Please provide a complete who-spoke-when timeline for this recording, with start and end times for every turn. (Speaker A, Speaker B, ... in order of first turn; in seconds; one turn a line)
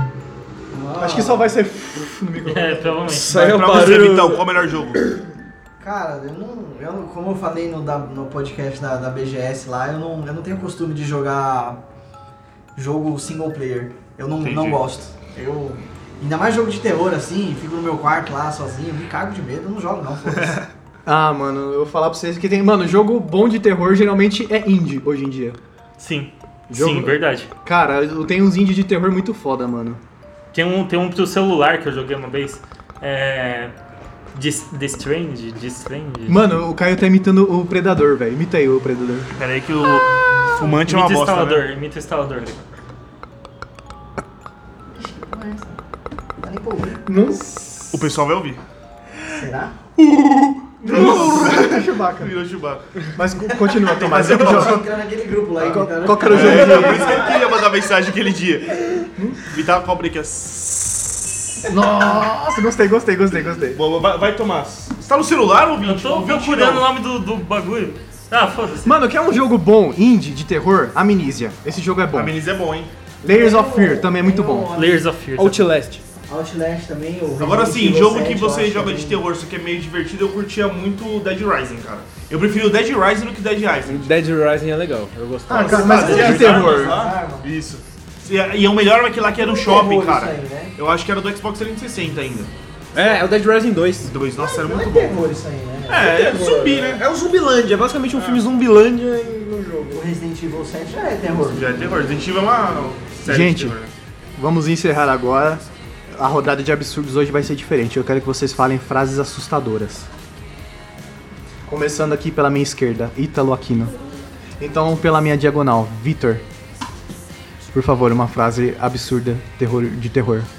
Speaker A: 0.7-1.5
Speaker B: 1.0-3.1
Speaker C: 2.4-3.3
Speaker D: 3.1-4.4
Speaker E: 3.3-5.0
Speaker A: 5.8-11.8
Speaker A: 12.8-20.6
Speaker E: 14.4-14.8
Speaker B: 21.1-25.6
Speaker C: 26.0-27.5
Speaker B: 26.7-30.0
Speaker C: 30.5-33.7
Speaker C: 34.3-36.4
Speaker B: 36.3-39.3
Speaker E: 39.3-41.7
Speaker C: 40.8-42.6
Speaker A: 45.0-45.8
Speaker A: 46.4-47.1
Speaker B: 47.0-47.9
Speaker E: 47.9-48.6
Speaker A: 49.2-49.8
Speaker E: 50.0-53.0
Speaker B: 50.8-52.4
Speaker A: 50.9-51.3
Speaker B: 53.1-54.8
Speaker E: 53.8-54.8
Speaker A: 53.9-57.6
Speaker B: 55.6-57.3
Speaker E: 56.2-61.6
Speaker B: 59.2-59.4
Speaker B: 61.6-63.8
Speaker E: 63.7-66.8
Speaker C: 65.8-69.0
Speaker B: 68.8-72.3
Speaker E: 72.1-72.9
Speaker B: 73.2-74.7
Speaker A: 73.3-75.1
Speaker C: 74.7-75.7
Speaker D: 75.4-76.0
Speaker A: 76.3-79.2
Speaker E: 77.4-84.1
Speaker D: 83.8-86.5
Speaker B: 85.5-87.0
Speaker A: 85.5-87.5
Speaker E: 85.5-92.5
Speaker A: 89.2-90.7
Speaker D: 92.9-94.1
Speaker E: 94.1-95.3
Speaker A: 94.4-96.3
Speaker E: 95.9-97.0
Speaker D: 96.0-100.0
Speaker E: 98.1-98.4
Speaker A: 99.9-101.8
Speaker E: 101.5-103.9
Speaker B: 103.2-103.8
Speaker B: 104.4-110.1
Speaker B: 111.7-113.9
Speaker B: 114.6-116.4
Speaker B: 117.7-120.5